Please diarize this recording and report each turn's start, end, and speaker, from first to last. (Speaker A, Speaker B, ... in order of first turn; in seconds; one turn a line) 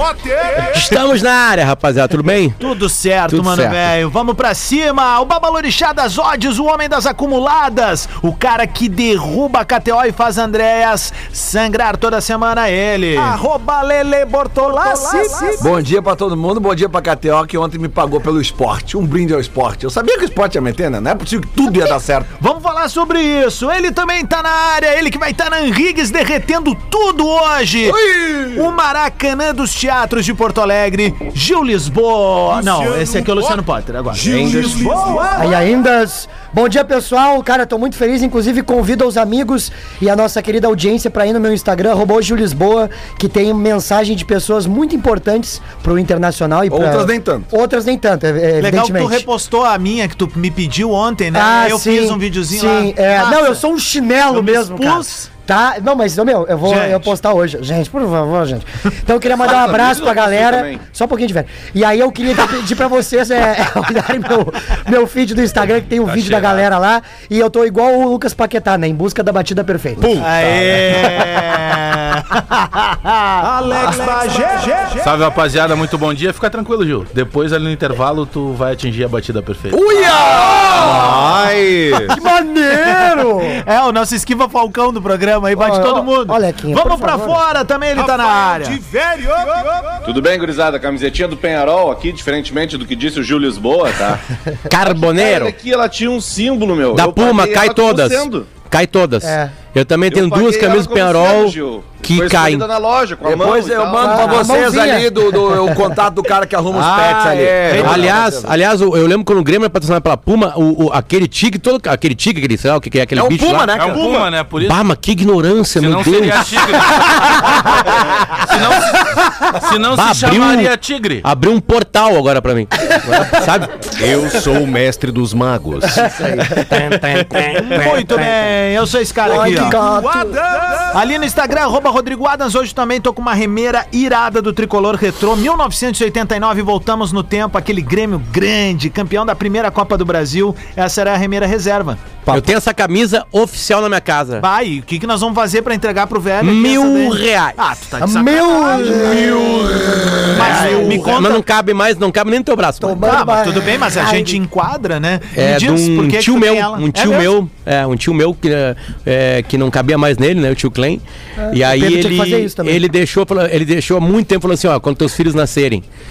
Speaker A: 0.6-2.6
Speaker B: 2.6-15.7
Speaker A: 3.3-3.8
Speaker C: 15.0-15.6
Speaker D: 15.6-22.3
Speaker B: 22.4-35.6
Speaker D: 27.8-28.7
Speaker E: 34.1-35.2
Speaker C: 35.3-49.2
Speaker D: 46.7-47.5
Speaker B: 48.6-53.6
Speaker C: 51.3-70.1
Speaker B: 54.3-55.3
Speaker B: 56.7-57.1
Speaker F: 59.3-60.8
Speaker G: 66.1-66.6
Speaker E: 70.0-71.0
Speaker B: 70.2-72.8
Speaker B: 73.4-75.2
Speaker G: 75.0-79.8
Speaker D: 79.7-81.4
Speaker E: 80.7-82.1
Speaker C: 82.0-83.6
Speaker B: 82.7-88.8
Speaker C: 85.5-87.4
Speaker F: 90.0-94.2
Speaker A: 94.7-95.5
Speaker F: 94.8-98.5
Speaker A: 96.9-102.7
Speaker C: 99.2-99.5
Speaker F: 100.1-104.5
Speaker D: 103.2-108.5
Speaker C: 104.0-105.7
Speaker E: 106.7-108.2
Speaker B: 107.7-108.0
Speaker A: 107.7-114.0
Speaker D: 113.2-114.3
Speaker G: 113.7-114.9
Speaker A: 114.6-117.6
Speaker G: 115.8-117.8
Speaker G: 118.3-121.2
Speaker A: 119.4-120.7
Speaker A: 121.2-123.9
Speaker E: 123.9-128.0
Speaker A: 126.0-128.2
Speaker C: 126.0-126.8
Speaker B: 127.7-130.2
Speaker C: 129.2-130.6
Speaker B: 130.9-142.0
Speaker A: 142.3-144.4
Speaker B: 144.4-149.3
Speaker A: 146.4-147.6
Speaker C: 148.0-151.0
Speaker B: 150.3-151.4
Speaker D: 150.3-151.2
Speaker A: 150.8-153.1
Speaker C: 152.8-154.4
Speaker B: 153.0-157.3
Speaker A: 155.3-165.8
Speaker C: 161.4-162.8